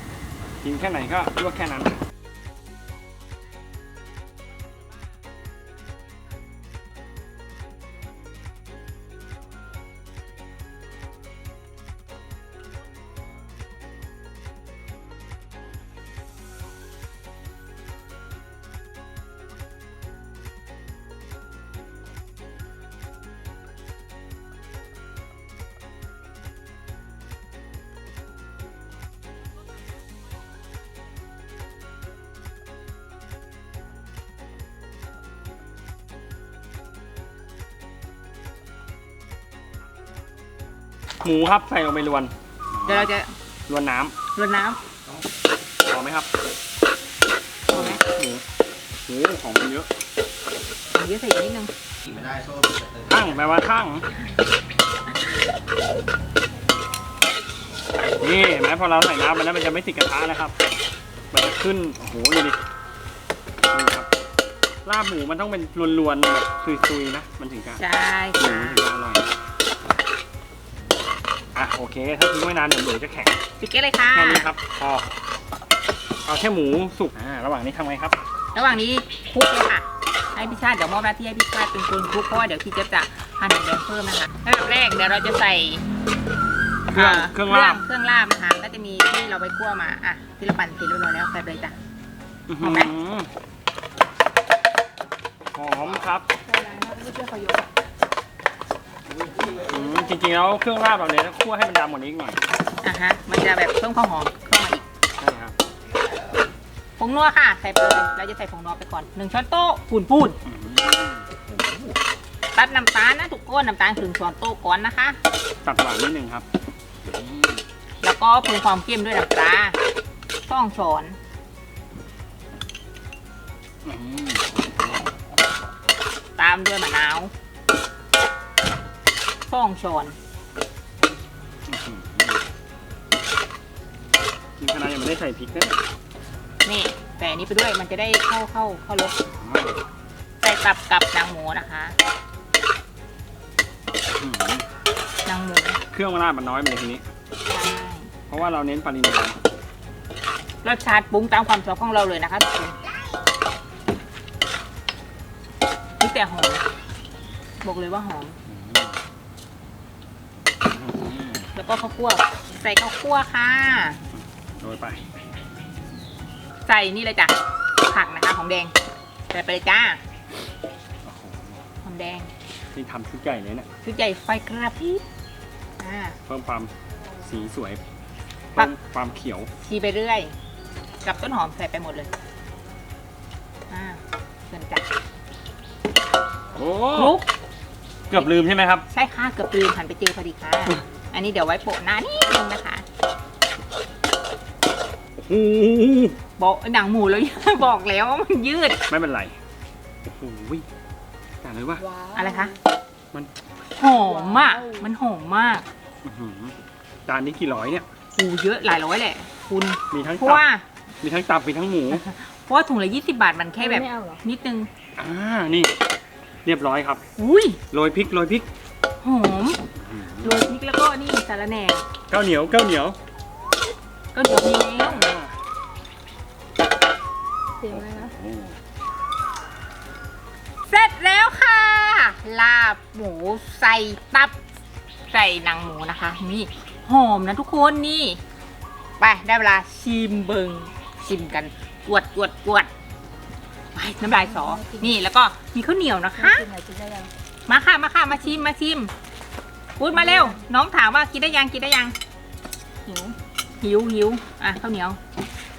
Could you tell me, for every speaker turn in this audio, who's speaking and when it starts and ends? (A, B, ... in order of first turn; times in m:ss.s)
0:00.6-0:02.0 A
0:41.2-0:43.1 A
0:42.8-0:43.3 B
0:43.7-0:44.1 A
0:44.3-0:44.8 B
0:45.8-0:46.3 A
0:47.7-0:48.0 B
0:47.7-0:48.4 A
0:49.1-0:49.9 A
0:50.9-0:51.7 B
0:53.0-0:54.0 A
0:58.2-1:00.5 A
1:01.3-1:02.6 A
1:03.7-1:04.1 A
1:04.8-1:07.8 A
1:07.8-1:08.8 B
1:08.4-1:09.3 A
1:11.5-1:13.4 A
1:13.6-1:14.5 B
1:14.1-1:15.1 A
1:16.2-1:18.2 A
1:18.5-1:25.8 B
1:26.9-1:27.8 A
1:26.9-1:31.8 B
1:32.5-1:33.3 A
1:32.6-1:32.9 B
1:35.5-1:36.3 A
1:36.5-1:37.7 C
1:39.5-1:42.4 A
1:42.8-1:44.8 B
1:45.2-1:45.5 A
1:47.0-1:50.4 B
1:50.4-1:51.3 A
1:52.5-1:55.2 B
1:55.6-1:56.4 A
1:57.0-1:57.6 A
1:58.0-1:59.8 B
2:00.5-2:01.2 B
2:03.8-2:05.0 A
2:06.4-2:07.3 B
2:09.5-2:10.2 B
2:11.7-2:12.4 A
2:14.6-2:15.8 A
2:16.6-2:19.2 B
2:19.4-2:19.8 A
2:20.4-2:22.0 B
2:24.1-2:24.6 A
2:25.2-2:25.8 B
2:25.9-2:27.0 A
2:27.4-2:28.1 B
2:28.3-2:29.4 A
2:30.6-2:32.8 B
2:36.0-2:36.6 B
2:37.6-2:38.4 B
2:38.5-2:39.0 A
2:40.6-2:41.5 A
2:41.5-2:44.0 B
2:44.1-2:45.0 A
2:46.6-2:48.7 B
2:49.3-2:50.0 B
2:51.0-2:51.6 A
2:51.8-2:52.3 B
2:52.7-2:53.7 A
2:53.8-2:55.0 B
2:55.8-2:56.2 B
2:56.3-2:57.8 A
2:58.5-2:59.5 A
2:59.6-3:00.3 B
3:01.0-3:02.1 B
3:03.7-3:04.8 B
3:06.5-3:07.2 A
3:06.9-3:07.3 B
3:08.1-3:08.8 A
3:08.9-3:12.8 B
3:15.2-3:16.2 A
3:16.4-3:18.8 B
3:18.9-3:19.4 A
3:20.0-3:20.6 A
3:21.4-3:21.8 A
3:21.8-3:22.5 C
3:22.1-3:22.5 B
3:23.7-3:25.6 B
3:23.9-3:24.8 C
3:26.0-3:26.5 A
3:27.0-3:27.8 A
3:28.2-3:30.6 B
3:29.9-3:30.4 A
3:31.0-3:32.0 A
3:31.9-3:34.7 B
3:35.0-3:35.7 A
3:36.4-3:37.0 A
3:37.2-3:37.6 B
3:37.7-3:38.5 A
3:39.0-3:39.6 B
3:39.8-3:40.5 A
3:40.2-3:41.8 B
3:42.1-3:43.0 A
3:44.1-3:45.1 B
3:44.8-3:45.3 A
3:47.7-3:48.5 A
3:50.7-3:54.3 B
3:55.1-3:58.2 B
3:59.0-4:02.7 B
4:03.7-4:06.5 B
4:04.0-4:04.9 C
4:06.1-4:07.1 C
4:07.5-4:08.9 B
4:09.8-4:11.9 B
4:10.0-4:10.4 C
4:12.8-4:13.1 C
4:13.6-4:15.0 B